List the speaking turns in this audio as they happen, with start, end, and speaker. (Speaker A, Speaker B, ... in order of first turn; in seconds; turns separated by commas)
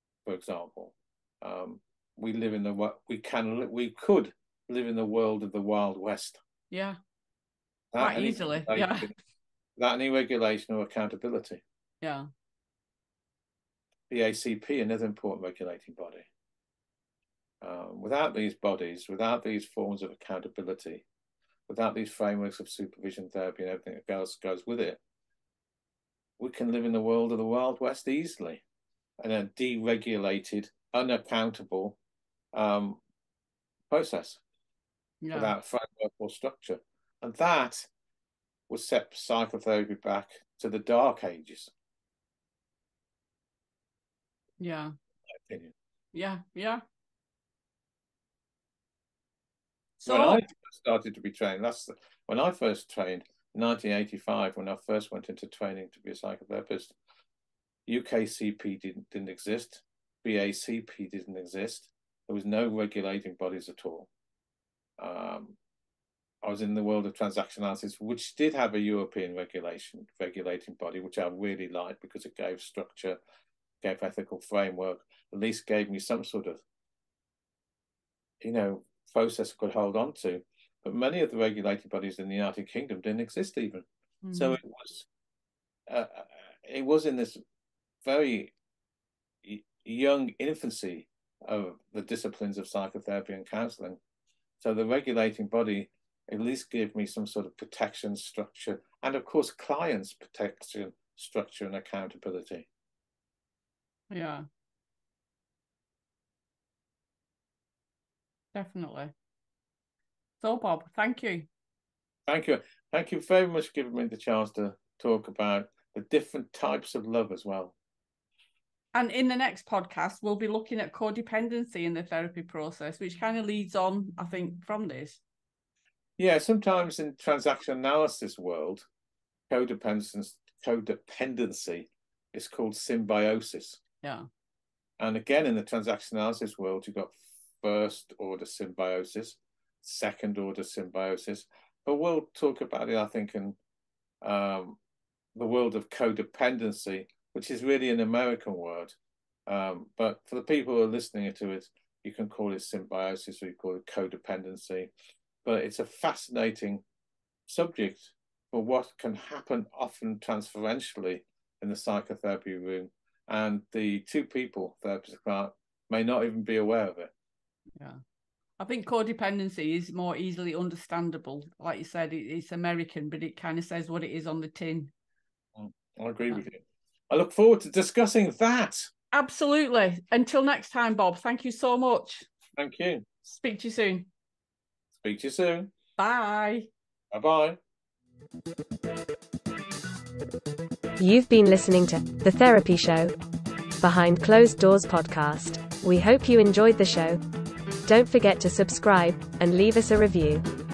Speaker A: 0.2-6.4, Speaker B: 6.7-7.0, Speaker A: 7.9-9.1, Speaker B: 8.0-9.1, Speaker A: 9.8-11.6, Speaker B: 12.0-12.3, Speaker A: 14.1-16.3, Speaker A: 17.6-21.1, Speaker A: 21.7-25.0, Speaker A: 26.4-28.6, Speaker A: 29.2-32.0, Speaker A: 32.5-33.0, Speaker A: 33.9-34.4, Speaker B: 35.2-35.5, Speaker A: 35.3-37.9, Speaker A: 38.7-41.7, Speaker B: 44.6-44.9, Speaker A: 45.4-45.7, Speaker B: 46.1-46.8, Speaker B: 50.0-50.4, Speaker A: 50.1-57.0, Speaker A: 57.9-64.1, Speaker A: 65.0-65.6, Speaker A: 66.4-73.2, Speaker A: 73.8-76.6, Speaker A: 78.4-85.1, Speaker B: 84.2-84.6, Speaker A: 85.9-87.4, Speaker A: 88.0-88.5, Speaker A: 89.4-94.0, Speaker A: 94.6-102.7, Speaker B: 104.1-104.5, Speaker B: 108.5-109.1, Speaker B: 110.4-111.5, Speaker A: 112.3-117.8, Speaker B: 118.9-125.2, Speaker A: 126.2-128.9, Speaker A: 129.5-133.8, Speaker B: 134.0-134.3, Speaker A: 135.0-143.6, Speaker A: 144.2-144.8, Speaker A: 145.3-149.0, Speaker A: 149.5-154.9, Speaker A: 155.4-156.8, Speaker A: 157.5-167.1, Speaker B: 168.6-174.9, Speaker A: 175.6-178.9, Speaker B: 179.1-182.3, Speaker A: 182.6-183.1, Speaker B: 183.2-184.1, Speaker A: 184.9-185.7, Speaker B: 186.0-186.7, Speaker A: 187.1-187.6, Speaker C: 191.0-193.1, Speaker C: 193.8-197.2, Speaker C: 197.9-200.4